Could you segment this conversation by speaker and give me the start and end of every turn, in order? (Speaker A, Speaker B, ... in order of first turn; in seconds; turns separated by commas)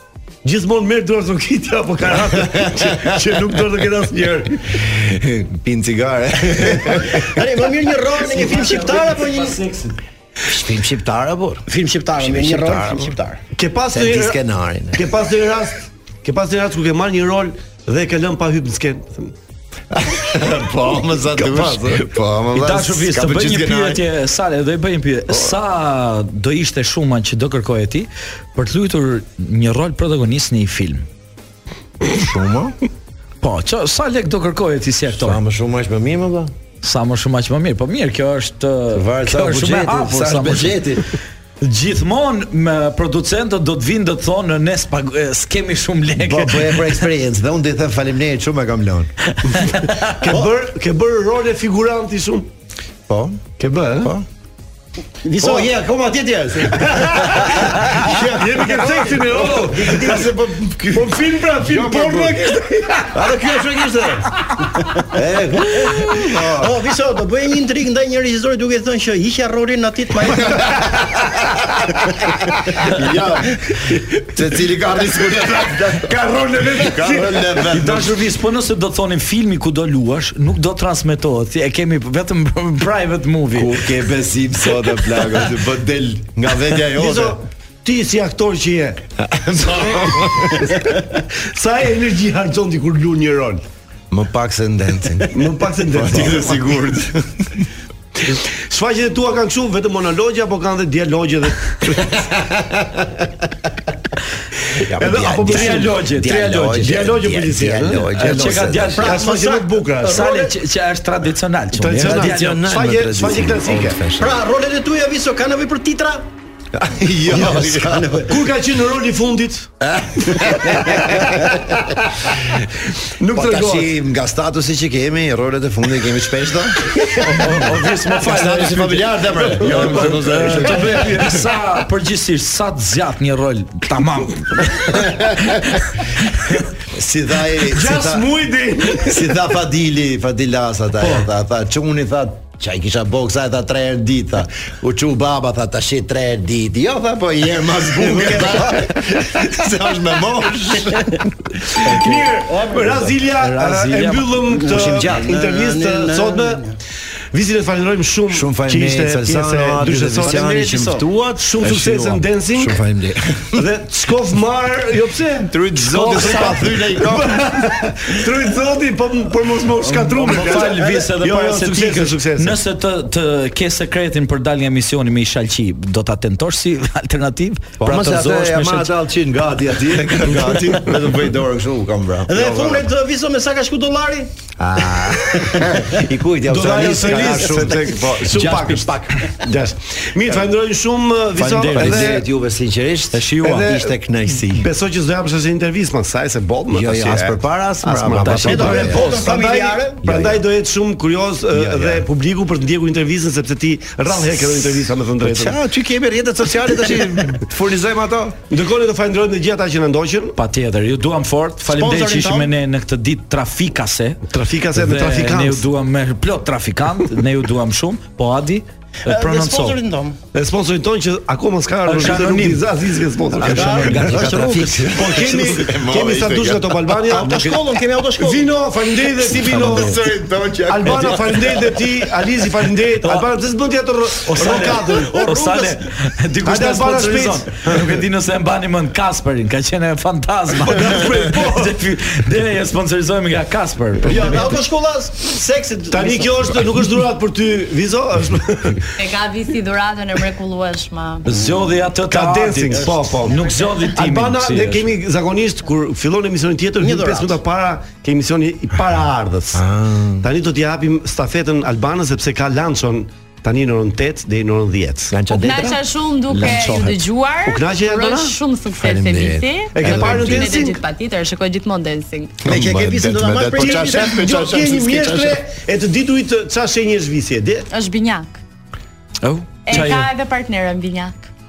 Speaker A: 0.4-4.8, Speaker B: 2.2-3.7, Speaker B: 4.8-7.3, Speaker A: 6.7-7.1, Speaker C: 7.2-9.6, Speaker A: 8.3-9.9, Speaker B: 10.4-11.7, Speaker C: 11.7-13.4, Speaker B: 12.2-13.2, Speaker A: 13.6-14.4, Speaker B: 13.9-15.1, Speaker A: 14.9-19.4, Speaker B: 19.9-24.0, Speaker A: 21.1-22.1, Speaker D: 22.6-31.1, Speaker B: 32.0-32.8, Speaker D: 33.4-35.4, Speaker B: 35.1-36.5, Speaker D: 36.8-40.8, Speaker B: 38.9-41.1, Speaker D: 41.6-47.0, Speaker B: 46.2-49.1, Speaker A: 49.5-52.5, Speaker D: 49.6-50.0, Speaker B: 53.1-54.3, Speaker A: 53.6-54.1, Speaker C: 55.2-55.7, Speaker B: 55.4-64.4, Speaker A: 57.0-60.3, Speaker A: 60.9-63.0, Speaker B: 65.0-66.8, Speaker C: 66.0-70.8, Speaker B: 70.4-76.2, Speaker A: 76.1-77.4, Speaker B: 76.7-78.2, Speaker D: 77.5-83.8, Speaker B: 83.5-87.4, Speaker A: 86.8-89.0, Speaker B: 89.2-90.9, Speaker A: 89.6-93.6, Speaker B: 94.1-97.6, Speaker A: 95.3-96.8, Speaker A: 98.3-102.3, Speaker B: 102.4-102.8, Speaker B: 104.9-109.0, Speaker A: 104.9-106.0, Speaker D: 105.4-107.0, Speaker A: 106.8-110.4, Speaker D: 108.2-109.2, Speaker C: 109.0-110.5, Speaker D: 110.0-112.6, Speaker A: 111.7-114.0, Speaker B: 112.0-114.4, Speaker C: 114.2-116.3, Speaker B: 116.7-118.2, Speaker A: 117.3-119.7, Speaker C: 117.4-118.4, Speaker B: 119.8-122.7, Speaker C: 121.0-121.3, Speaker A: 123.0-123.9, Speaker B: 123.2-131.4, Speaker D: 127.2-135.8, Speaker A: 129.7-131.0, Speaker B: 134.9-135.6, Speaker B: 136.9-138.2, Speaker A: 137.6-139.4, Speaker B: 139.0-151.7, Speaker C: 148.0-148.9, Speaker A: 151.8-156.7, Speaker D: 151.9-152.3, Speaker C: 152.5-153.2, Speaker D: 153.4-154.6, Speaker C: 154.5-156.8, Speaker B: 154.7-155.3, Speaker A: 157.3-160.5, Speaker B: 158.3-163.7, Speaker C: 160.2-161.1, Speaker A: 161.4-162.8, Speaker A: 163.5-172.6, Speaker B: 165.5-167.4, Speaker D: 169.8-178.9, Speaker B: 170.4-170.7, Speaker B: 177.8-182.8, Speaker C: 182.3-184.3, Speaker B: 184.6-188.2, Speaker C: 184.9-186.0, Speaker A: 186.5-192.3, Speaker D: 188.2-189.4, Speaker D: 191.4-192.2, Speaker B: 191.7-194.7, Speaker D: 193.1-193.7, Speaker A: 193.4-205.6, Speaker B: 196.7-199.1, Speaker D: 198.1-199.2, Speaker C: 198.4-200.0, Speaker B: 200.0-200.4, Speaker B: 201.5-202.0, Speaker B: 205.2-208.4, Speaker A: 208.5-210.4, Speaker D: 210.4-214.2, Speaker C: 211.7-212.5, Speaker A: 214.3-215.7, Speaker D: 214.8-219.8, Speaker C: 219.1-220.2, Speaker A: 220.3-224.0, Speaker D: 221.9-222.7, Speaker D: 223.3-225.1, Speaker C: 223.5-224.9, Speaker B: 224.1-227.2, Speaker A: 224.9-227.6, Speaker C: 227.1-228.6, Speaker A: 228.2-230.0, Speaker B: 229.2-231.8, Speaker D: 229.4-230.0, Speaker A: 230.7-235.3, Speaker D: 234.3-244.6, Speaker C: 234.4-235.8, Speaker A: 236.4-238.0, Speaker A: 240.7-241.7, Speaker C: 244.0-246.7, Speaker A: 245.9-248.9, Speaker E: 249.0-251.3, Speaker D: 251.2-254.9, Speaker A: 252.1-259.6, Speaker C: 252.8-253.3, Speaker C: 256.8-257.4, Speaker B: 259.5-260.3, Speaker A: 260.2-265.2, Speaker B: 265.1-267.1, Speaker E: 265.3-272.4, Speaker A: 267.4-268.4, Speaker B: 268.8-270.5, Speaker A: 269.7-270.8, Speaker C: 272.4-274.2, Speaker B: 272.4-275.4, Speaker A: 273.5-277.7, Speaker E: 277.7-278.4, Speaker D: 279.2-280.1, Speaker E: 279.6-281.3